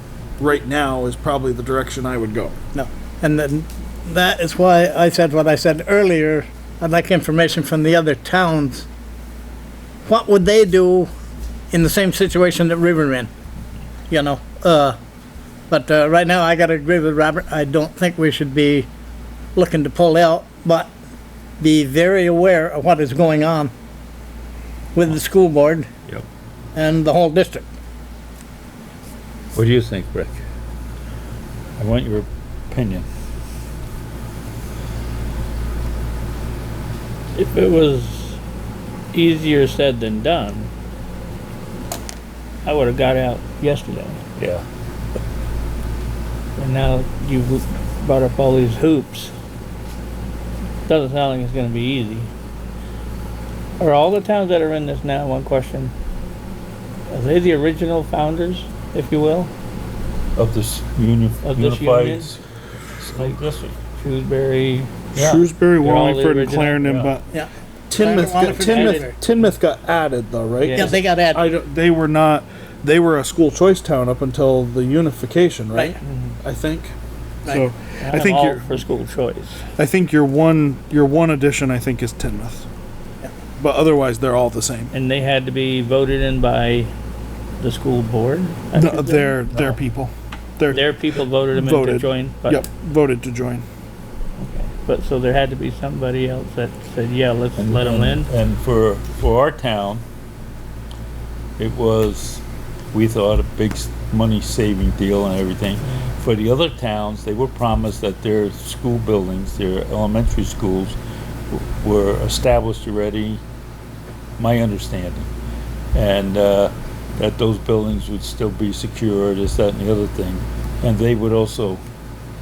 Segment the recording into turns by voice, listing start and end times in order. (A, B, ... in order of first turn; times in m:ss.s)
0:00.4-0:02.6 A
0:02.7-0:08.8 B
0:10.0-0:11.1 B
0:11.7-0:13.3 B
0:14.1-0:15.0 B
0:15.7-0:18.9 B
0:19.6-0:20.9 B
0:21.6-0:23.7 B
0:24.9-0:25.9 B
0:26.7-0:27.7 B
0:29.5-0:30.4 C
0:31.8-0:33.1 C
0:37.3-0:38.4 D
0:39.1-0:40.7 D
0:42.6-0:44.2 D
0:44.4-0:44.6 C
0:46.6-0:49.3 D
0:50.9-0:52.3 D
0:53.8-0:55.9 D
0:57.1-0:59.5 D
1:00.4-1:02.4 C
1:01.4-1:02.3 D
1:03.0-1:03.7 C
1:03.1-1:05.0 D
1:05.1-1:05.4 C
1:05.1-1:07.3 A
1:05.8-1:07.1 D
1:07.3-1:09.1 B
1:07.9-1:16.9 A
1:08.4-1:09.1 D
1:10.6-1:11.0 D
1:10.7-1:11.4 B
1:16.0-1:16.4 D
1:17.4-1:18.7 A
1:18.0-1:19.6 D
1:19.8-1:22.7 A
1:23.6-1:24.9 A
1:24.9-1:26.9 D
1:27.6-1:29.4 D
1:28.7-1:30.9 A
1:30.7-1:32.6 D
1:31.5-1:33.6 A
1:34.4-1:38.3 D
1:37.6-1:40.0 C
1:41.6-1:51.0 C
1:51.5-1:53.4 C
1:54.4-1:55.3 C
1:55.9-2:01.8 C